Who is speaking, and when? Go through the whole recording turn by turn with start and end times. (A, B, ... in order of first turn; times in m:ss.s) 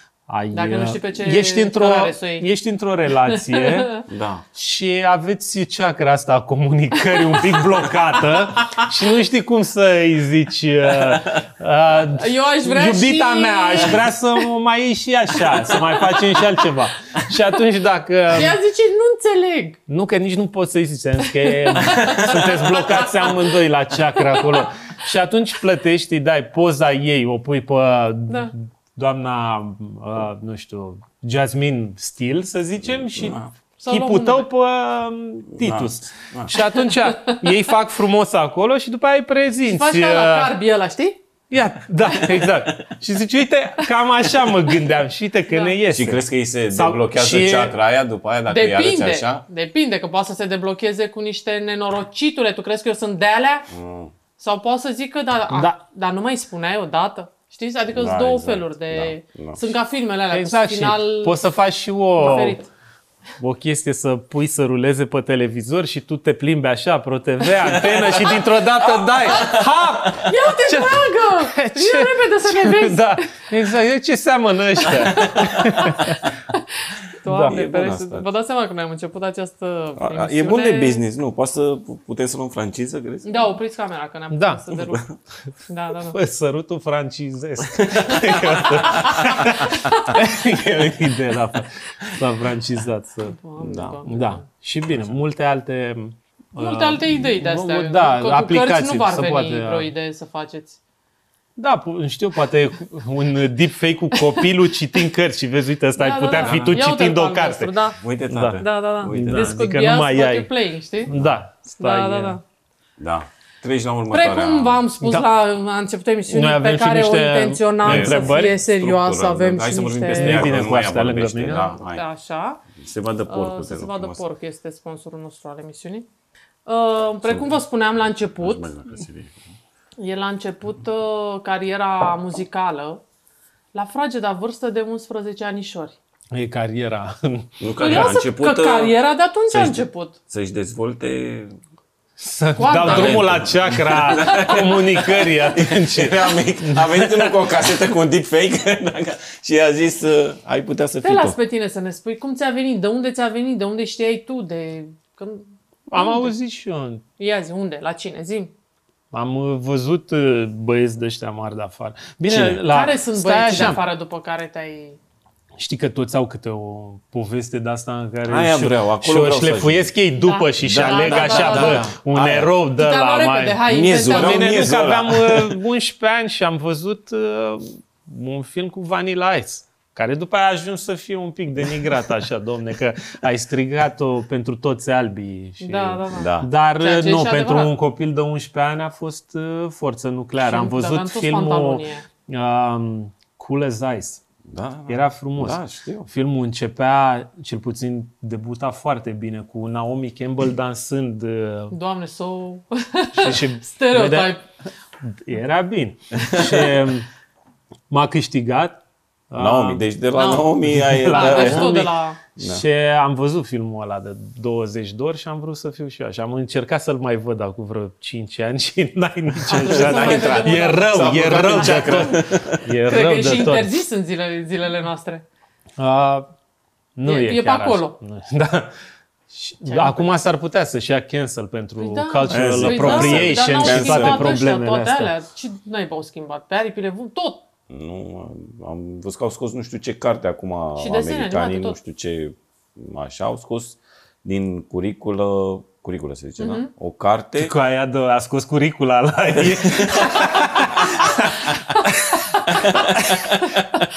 0:00.3-0:18.6 A
0:00.5-0:02.5 B
0:03.3-0:04.0 B
0:04.1-0:04.4 C
0:07.2-0:07.6 B
0:12.2-0:14.1 B
0:15.5-0:16.6 B
0:18.3-0:19.8 B
0:19.9-0:40.5 A
0:21.5-0:23.5 B
0:24.2-0:24.7 B
0:33.0-0:33.5 C
0:33.8-0:34.5 B
0:35.6-0:36.5 C
0:39.6-0:41.2 B
0:41.5-0:47.8 A
0:42.1-0:42.4 B
0:45.9-0:49.4 C
0:48.5-0:53.7 B
0:53.7-0:54.1 C
0:54.4-1:01.4 B
0:55.5-0:55.8 A
0:57.9-0:59.6 C
1:00.3-1:02.6 A
1:02.2-1:02.7 B
1:03.4-1:16.3 A
1:07.6-1:10.3 C
1:10.2-1:13.4 B
1:14.9-1:21.0 B
1:15.2-1:16.1 C
1:17.2-1:17.6 A
1:17.4-1:18.3 C
1:20.0-1:23.4 C
1:23.2-1:25.0 B
1:24.3-1:24.8 A
1:24.7-1:25.1 C
1:25.7-1:26.2 B
1:26.1-1:33.4 A
1:27.8-1:29.7 C
1:29.0-1:30.2 B
1:33.2-1:34.4 B
1:33.6-1:34.0 C
1:34.0-1:39.9 A
1:36.6-1:40.8 B
1:41.6-1:47.7 A
1:44.2-1:44.4 B
1:46.0-1:48.0 B
1:46.4-1:46.8 C
1:48.0-1:49.6 C
1:48.3-1:50.5 A
1:48.6-1:51.1 B
1:51.0-1:52.4 A
1:51.1-1:51.4 C
1:51.8-1:52.4 B
1:53.0-1:54.8 C
1:54.1-2:00.6 B
1:55.0-1:55.3 A
1:56.3-1:58.6 A
1:57.8-2:02.0 C
2:00.2-2:01.7 A
2:01.6-2:02.6 B
2:02.7-2:04.2 C
2:03.3-2:06.1 B
2:06.7-2:08.7 B
2:07.2-2:07.6 C
2:08.2-2:09.4 C
2:10.0-2:13.0 B
2:13.7-2:16.0 B
2:16.3-2:18.1 A
2:17.6-2:19.0 C
2:17.8-2:20.2 B
2:19.5-2:21.6 C
2:22.2-2:27.4 A
2:22.6-2:23.4 B
2:22.7-2:31.4 C
2:24.1-2:24.6 B
2:31.0-2:36.3 B
2:35.9-2:37.0 A
2:37.2-2:38.5 B
2:39.1-2:43.8 A
2:42.3-2:42.6 C
2:42.4-2:45.0 B
2:45.6-3:14.2 A
2:48.2-2:49.9 C
2:50.2-2:51.9 B
2:50.6-2:52.5 C
2:52.8-2:54.5 B
2:53.7-2:55.6 C
3:05.6-3:07.7 B
3:06.1-3:06.5 C
3:10.4-3:12.0 B
3:14.4-3:16.1 C
3:14.9-3:21.8 A
3:21.7-3:24.4 B
3:23.2-3:24.4 A
3:25.0-3:27.1 A
3:27.9-3:28.8 A
3:29.3-3:43.8 A
3:29.4-3:31.7 C
3:30.2-3:30.5 B
3:31.1-3:32.2 B
3:32.4-3:32.6 C
3:39.5-3:42.3 B
3:39.6-3:42.7 C
3:42.9-3:45.3 B
3:45.8-3:46.3 A
3:47.0-3:48.8 A
3:47.0-3:48.0 B
3:49.3-3:55.1 A
3:49.6-3:50.1 B
3:51.8-3:57.4 B
3:52.3-3:54.4 C
3:57.7-4:07.5 C
4:00.8-4:01.8 B
4:06.4-4:06.7 B
4:07.4-4:13.2 A
4:09.4-4:10.9 C
4:12.5-4:13.6 C